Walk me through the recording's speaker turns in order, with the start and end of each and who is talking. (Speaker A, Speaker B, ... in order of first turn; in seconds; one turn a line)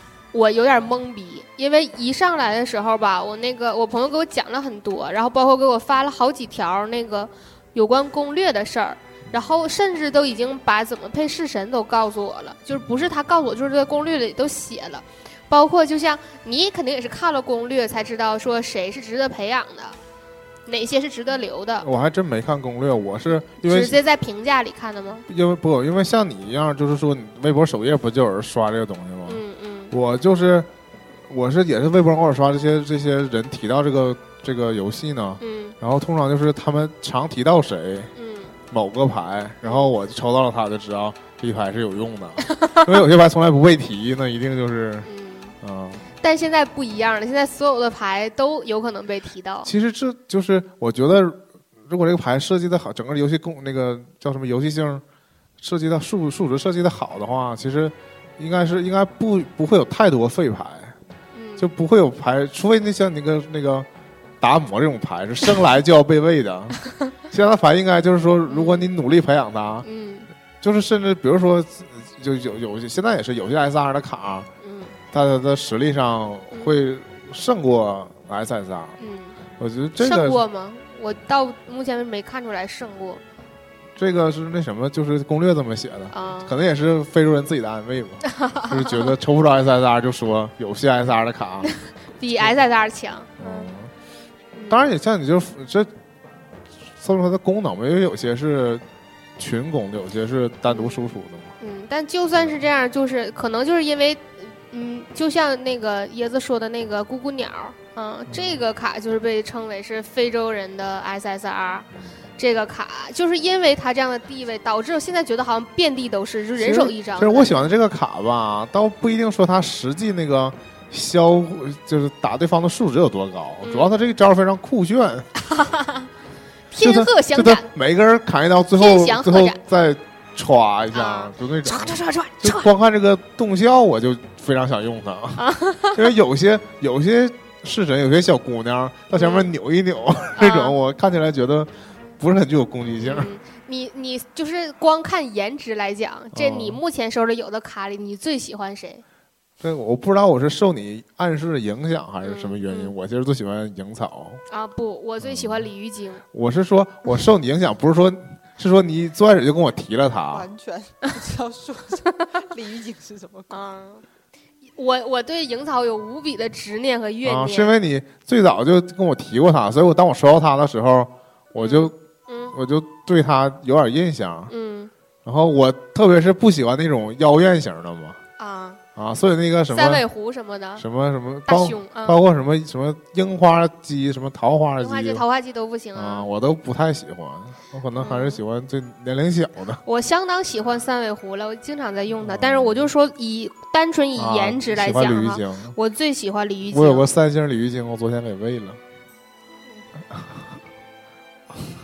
Speaker A: 0.3-20.0
Speaker B: 9.3-9.6
Speaker A: 20.7-21.9
Speaker B: 21.8-24.0
Speaker A: 23.6-25.3
Speaker B: 25.3-30.7
Speaker A: 29.3-29.9
Speaker B: 31.3-38.1
Speaker A: 35.4-35.8
Speaker A: 38.2-38.6
Speaker B: 38.7-45.1
Speaker A: 39.6-39.9
Speaker A: 42.5-42.9
Speaker A: 45.0-45.5
Speaker B: 45.6-46.1
Speaker A: 46.2-49.7
Speaker B: 49.6-55.0
Speaker B: 55.6-61.0
Speaker A: 61.3-61.7
Speaker B: 61.6-63.9
Speaker B: 64.4-69.9
Speaker A: 68.5-68.9
Speaker A: 69.8-70.3
Speaker B: 70.6-74.5
Speaker A: 74.6-75.0
Speaker B: 75.1-79.0
Speaker A: 79.0-79.4
Speaker B: 79.6-80.4
Speaker A: 80.0-83.2
Speaker B: 84.0-91.7
Speaker A: 86.1-86.6
Speaker A: 88.2-89.1
Speaker A: 91.6-93.7
Speaker B: 93.4-93.9
Speaker A: 94.5-94.9
Speaker B: 94.7-95.9
Speaker B: 97.0-98.8
Speaker B: 99.4-101.5
Speaker A: 100.7-117.7
Speaker B: 108.3-108.6
Speaker B: 116.6-125.3
Speaker A: 123.6-123.9
Speaker A: 125.4-126.1
Speaker A: 126.7-127.7
Speaker B: 126.8-143.3
Speaker A: 128.8-129.6
Speaker A: 130.9-132.7
Speaker A: 135.4-136.0
Speaker A: 139.1-139.5
Speaker A: 140.4-140.8
Speaker A: 143.0-149.0
Speaker B: 146.3-146.8
Speaker B: 149.6-154.4
Speaker A: 152.2-152.9
Speaker A: 154.5-156.2
Speaker B: 155.2-155.7
Speaker B: 156.3-160.5
Speaker C: 160.3-163.6
Speaker A: 163.5-164.0
Speaker A: 164.8-167.7
Speaker B: 167.2-172.0
Speaker A: 171.6-172.6
Speaker B: 172.5-174.5
Speaker A: 174.5-174.9
Speaker B: 175.2-178.2
Speaker A: 178.4-178.8
Speaker B: 179.0-180.1
Speaker A: 179.7-180.8
Speaker B: 180.8-185.2
Speaker A: 181.5-182.2
Speaker A: 184.8-186.3
Speaker B: 185.9-189.8
Speaker A: 188.0-188.4
Speaker A: 189.8-197.1
Speaker B: 192.2-192.9
Speaker B: 194.2-195.8
Speaker B: 196.7-198.8